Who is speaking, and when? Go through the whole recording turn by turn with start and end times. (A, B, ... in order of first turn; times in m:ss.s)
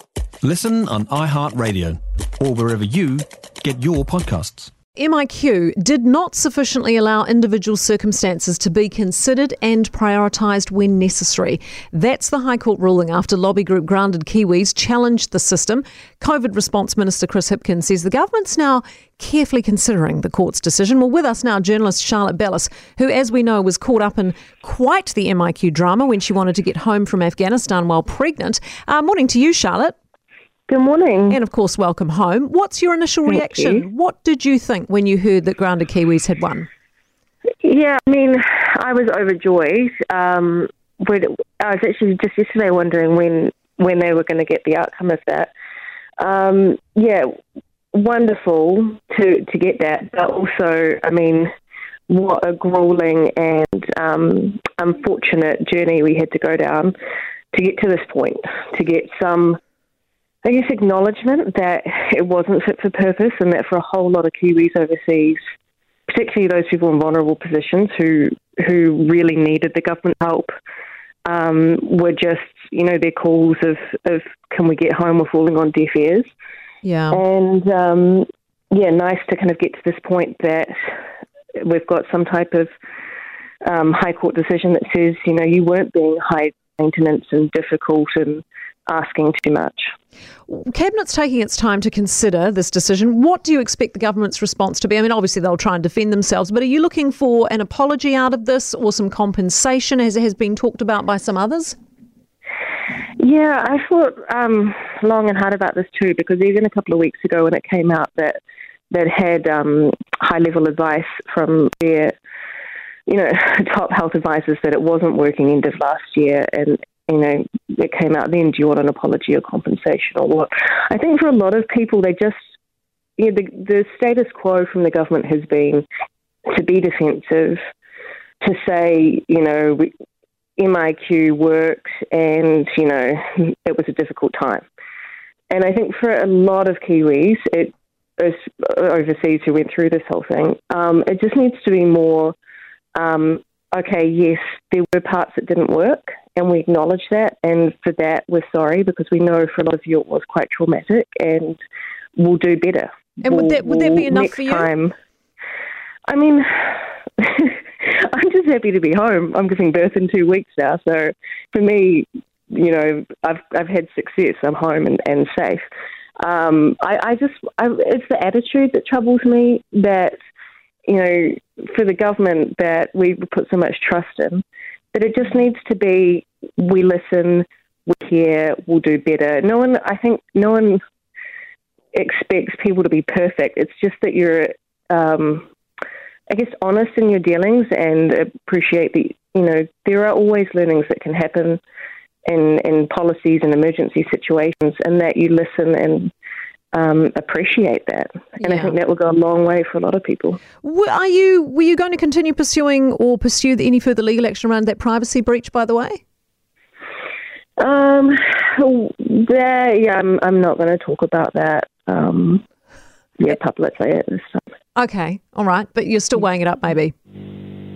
0:00.4-0:04.7 A
0:05.0-0:30.0 B
0:30.7-0:31.4 C
0:31.3-0:36.7 B
0:33.3-0:33.8 C
0:37.6-0:45.5 C
0:46.2-0:47.3 C
0:47.9-0:51.5 C
0:52.1-0:56.9 C
0:57.5-0:59.6 C
1:00.4-1:05.4 C
1:06.1-1:10.5 C
1:11.2-1:16.3 C
1:16.8-1:17.2 B
1:17.1-1:21.0 C
1:21.6-1:22.7 C
1:23.6-1:29.9 C
1:30.5-1:41.8 B
1:43.2-1:48.4 C
1:48.9-1:52.1 C
1:53.1-2:02.4 C
2:03.2-2:05.8 C
2:06.5-2:07.6 C
2:08.4-2:09.9 C
2:10.6-2:14.6 C
2:15.5-2:22.4 C
2:22.9-2:31.6 C
2:32.2-2:34.9 C
2:33.2-2:34.7 B
2:36.1-2:45.6 C
2:46.2-2:50.1 C
2:50.8-3:00.8 C
3:01.9-3:05.5 C
3:06.3-3:11.6 C
3:12.2-3:16.1 C
3:16.7-3:20.4 C
3:18.4-3:18.7 B
3:20.6-3:26.0 B
3:27.6-3:32.4 C
3:33.2-3:34.4 C
3:34.8-3:36.9 B